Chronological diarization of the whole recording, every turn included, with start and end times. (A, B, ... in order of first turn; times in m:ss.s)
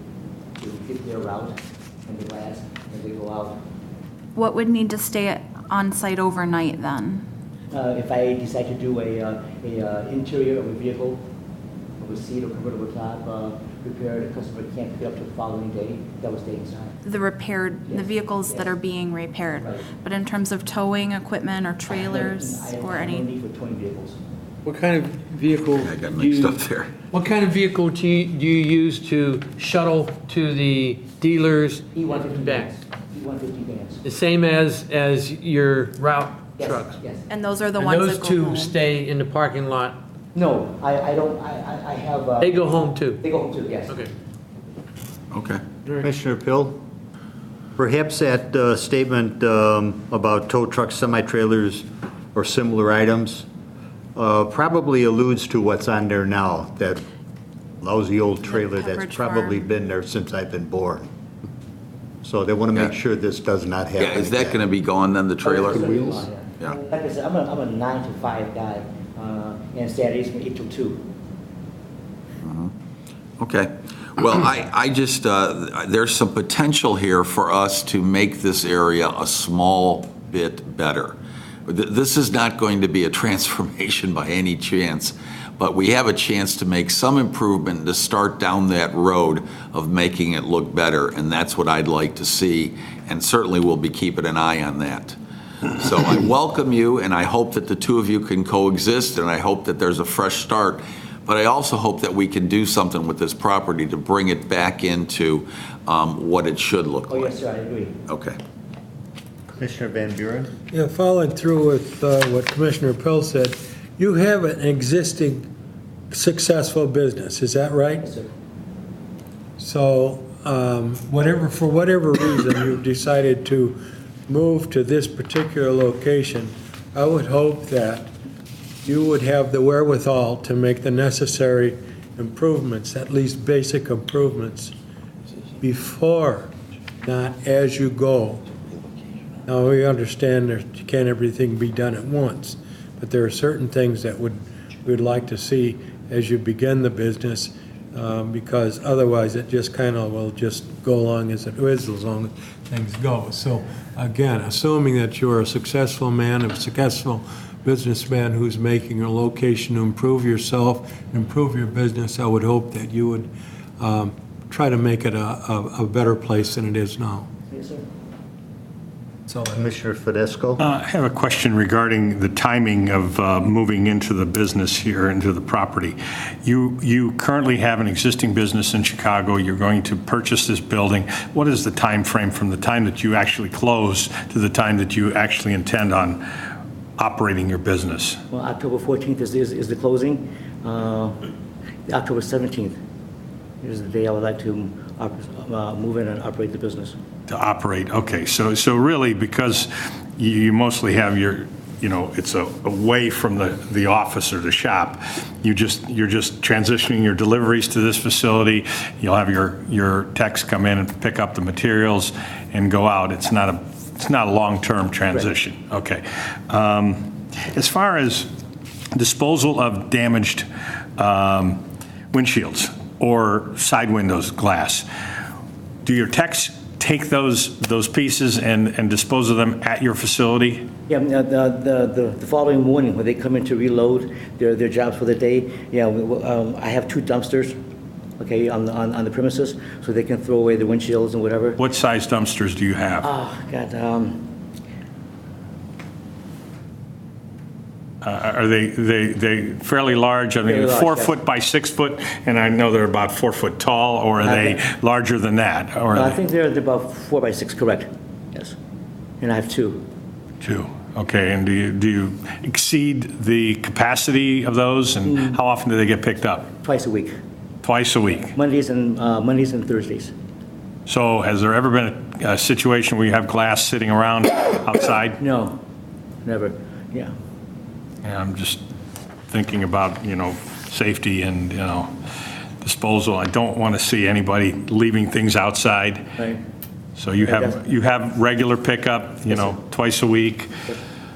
0:00.6-0:03.6 A
0:04.4-0:07.3 B
0:07.7-0:11.2 A
0:12.0-0:17.0 A
0:17.0-0:23.2 B
0:17.9-0:18.7 A
0:19.6-0:19.9 A
0:21.9-0:24.2 A
0:24.6-0:26.6 C
0:25.8-0:26.9 D
0:27.1-0:32.7 C
0:31.9-0:34.0 A
0:34.0-0:37.0 C
0:36.6-0:37.3 A
0:37.3-0:38.8 B
0:37.8-0:40.0 C
0:40.4-0:44.1 A
0:42.4-0:43.2 C
0:45.3-0:45.6 D
0:45.9-0:46.8 E
0:47.8-0:53.5 E
0:54.2-0:57.0 E
0:57.8-1:01.0 E
0:58.6-0:59.6 B
1:02.2-1:04.6 E
1:04.0-1:06.0 D
1:05.4-1:11.0 A
1:12.4-1:12.7 D
1:13.4-1:21.2 D
1:21.7-1:35.2 D
1:35.8-1:47.3 D
1:47.1-1:48.0 A
1:48.1-1:48.4 D
1:49.5-1:50.5 E
1:50.7-1:55.5 F
1:56.1-1:58.2 F
1:58.0-1:58.3 A
1:59.6-2:08.1 F
2:08.8-2:14.8 F
2:15.6-2:16.5 F
2:17.0-2:18.5 F
2:19.5-2:47.3 F
2:47.5-2:47.8 A
2:49.3-2:49.7 F
2:49.5-2:50.6 E
2:50.6-3:06.2 G
3:07.0-3:08.2 G
3:08.3-3:11.2 A
3:11.9-3:12.8 A
3:13.6-3:17.0 A
3:17.3-3:38.3 G
3:39.0-3:40.5 G
3:41.0-3:44.9 G
3:45.8-3:50.7 G
3:50.9-3:57.6 A
3:58.2-4:01.6 A
4:01.6-4:03.1 G
4:03.0-4:04.3 A
4:08.0-4:16.2 G
4:10.4-4:11.2 A
4:14.2-4:14.6 A
4:15.9-4:18.6 A
4:19.2-4:19.9 A
4:20.4-4:26.5 G
4:26.6-4:27.2 A
4:27.6-4:28.3 G
4:28.2-4:30.1 A
4:30.9-4:35.2 G
4:35.2-4:35.6 A
4:36.2-4:37.1 A
4:38.0-4:38.6 G
4:39.3-4:41.9 G
4:42.6-4:46.1 G
4:47.0-4:50.5 G
4:47.2-4:47.6 A
4:49.3-4:49.6 A